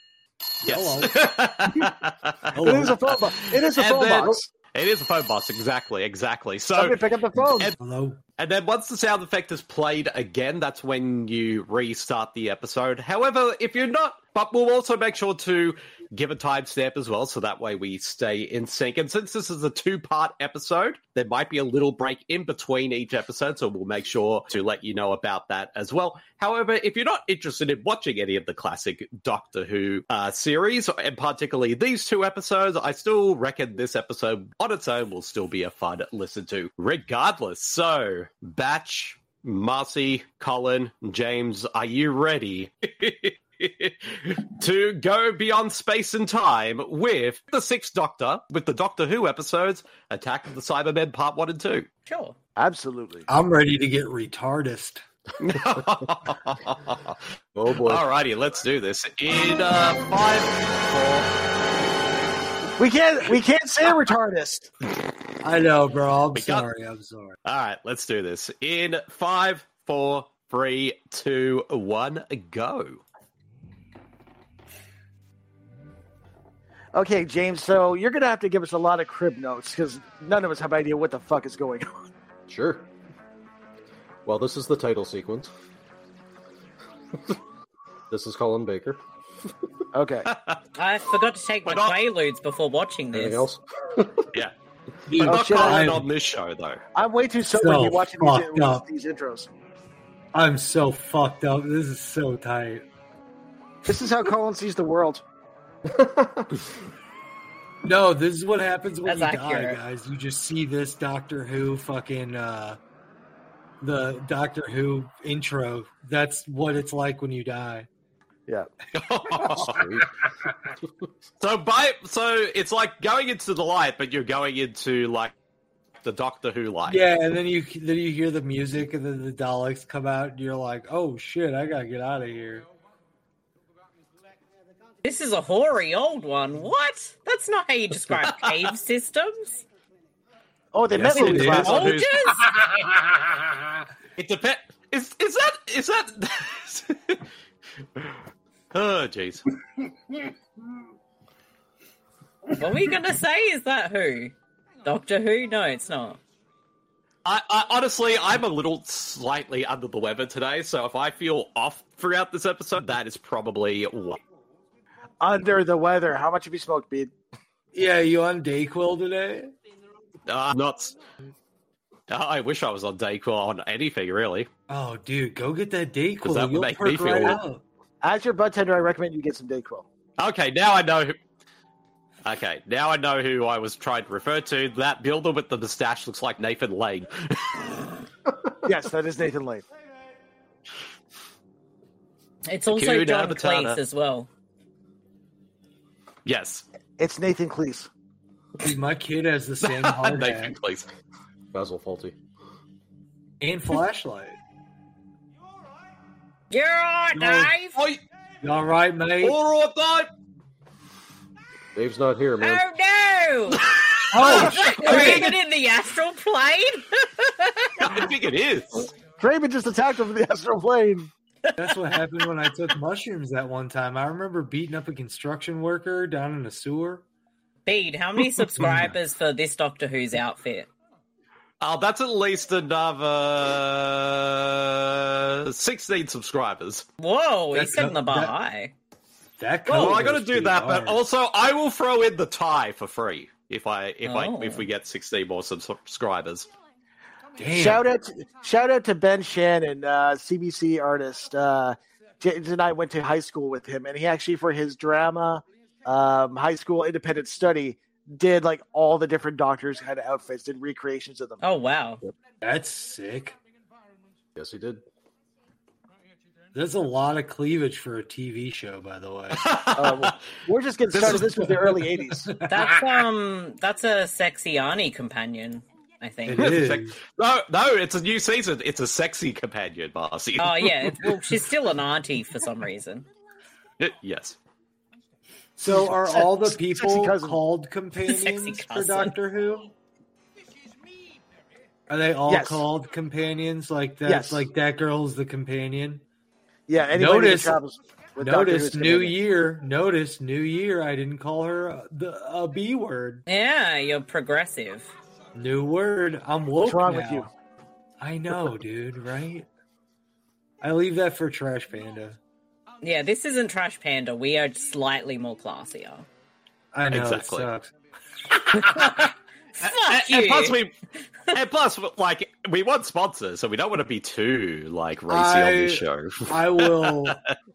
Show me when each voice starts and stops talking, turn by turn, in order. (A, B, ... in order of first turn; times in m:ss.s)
0:00.6-0:01.3 A
0:00.6-0:07.8 B
0:02.5-0:03.0 A
0:02.6-0:04.5 C
0:06.8-0:07.7 C
0:07.8-0:08.2 A
0:08.4-0:51.9 B
0:52.1-0:52.4 D
0:52.6-0:53.2 C
0:53.3-0:55.0 A
0:55.4-0:57.2 B
0:57.5-0:58.0 E
0:57.8-1:01.3 B
1:02.8-1:04.7 C
1:05.4-1:07.3 A
1:06.3-1:06.7 B
1:07.4-1:13.0 B
1:16.9-1:22.1 C
1:22.5-1:22.9 E
1:24.2-1:25.5 E
1:28.1-1:29.0 E
1:29.9-1:30.3 C
1:30.3-1:30.6 B
1:30.8-1:33.5 D
1:31.6-1:32.0 B
1:33.1-1:34.2 E
1:35.1-1:36.1 A
1:35.2-1:36.8 B
1:35.2-1:36.0 C
1:36.9-1:39.5 C
1:37.5-1:38.8 A
1:40.3-1:42.8 A
1:43.8-1:45.2 C
1:45.9-1:46.6 E
1:47.8-1:52.8 A
1:49.0-1:49.8 D
1:53.8-1:57.9 A
1:58.9-1:59.8 B
1:59.5-2:00.0 E
2:01.4-2:05.3 B
2:06.0-2:07.0 B
2:06.9-2:12.6 A
2:15.0-2:19.6 D
2:18.2-2:18.5 B
2:20.7-2:22.0 C
2:20.9-2:22.2 B
2:21.1-2:21.9 A
2:21.5-2:22.4 D
2:24.2-2:27.2 B
2:28.7-2:29.4 B
2:32.6-2:34.3 D
2:34.8-2:36.2 D
2:37.2-2:44.2 B
2:45.2-2:47.1 C
2:47.7-2:49.5 A
2:50.3-2:51.0 B
2:52.1-2:54.5 B
2:54.7-2:57.6 A
2:56.2-2:57.4 B
2:58.0-2:59.9 C
3:00.2-3:01.2 B
3:02.2-3:07.6 B
3:08.6-3:09.6 C
3:12.4-3:14.3 D
3:12.7-3:13.8 B
3:16.2-3:16.6 B
3:17.0-3:17.9 C
3:18.6-3:20.5 A
3:19.6-3:20.9 B
3:21.5-3:22.2 E
3:23.4-3:24.4 A
3:26.5-3:27.8 D
3:27.1-3:27.5 A
3:27.7-3:28.0 B
3:28.4-3:29.4 A
3:29.2-3:30.1 B
3:31.7-3:32.6 E
3:32.4-3:33.6 D
3:33.7-3:35.4 B
3:34.1-3:35.3 A
3:34.2-3:37.8 D
3:37.8-3:38.9 B
3:39.2-3:41.1 C
3:41.6-3:47.0 A
3:47.6-3:50.7 D
3:48.5-3:48.9 A
3:51.6-3:56.9 B
3:57.0-3:58.7 D
3:57.5-3:58.3 A
3:59.4-4:01.0 A
3:59.7-4:00.0 D
3:59.7-4:06.5 B
4:04.0-4:04.7 D
4:07.4-4:07.8 A
4:07.5-4:21.4 C
4:21.4-4:22.0 D
4:22.4-4:23.4 A
4:24.4-4:24.8 E
4:26.5-4:29.4 A
4:29.4-4:30.2 B
4:29.8-4:32.4 C
4:30.9-4:31.3 B
4:31.0-4:32.7 A
4:32.4-4:36.6 D
4:36.2-4:37.0 A
4:36.4-4:41.3 B
4:40.4-4:43.0 D
4:43.8-4:44.4 B
4:45.6-4:49.7 A
4:45.6-4:47.4 C
4:48.0-4:49.2 D
4:51.9-4:56.0 A
4:52.3-4:52.6 C
4:54.0-4:54.4 C
4:56.7-4:59.2 C
4:56.9-4:57.6 A
4:58.2-5:03.2 A
5:03.2-5:04.9 D
5:05.3-5:07.3 A
5:06.6-5:07.3 C
5:08.0-5:09.5 A
5:10.6-5:12.2 A
5:12.8-5:16.1 D
5:16.7-5:17.7 A
5:16.9-5:17.5 B
5:18.5-5:20.6 D
5:19.6-5:20.7 B
5:21.3-5:27.3 B
5:25.1-5:27.2 A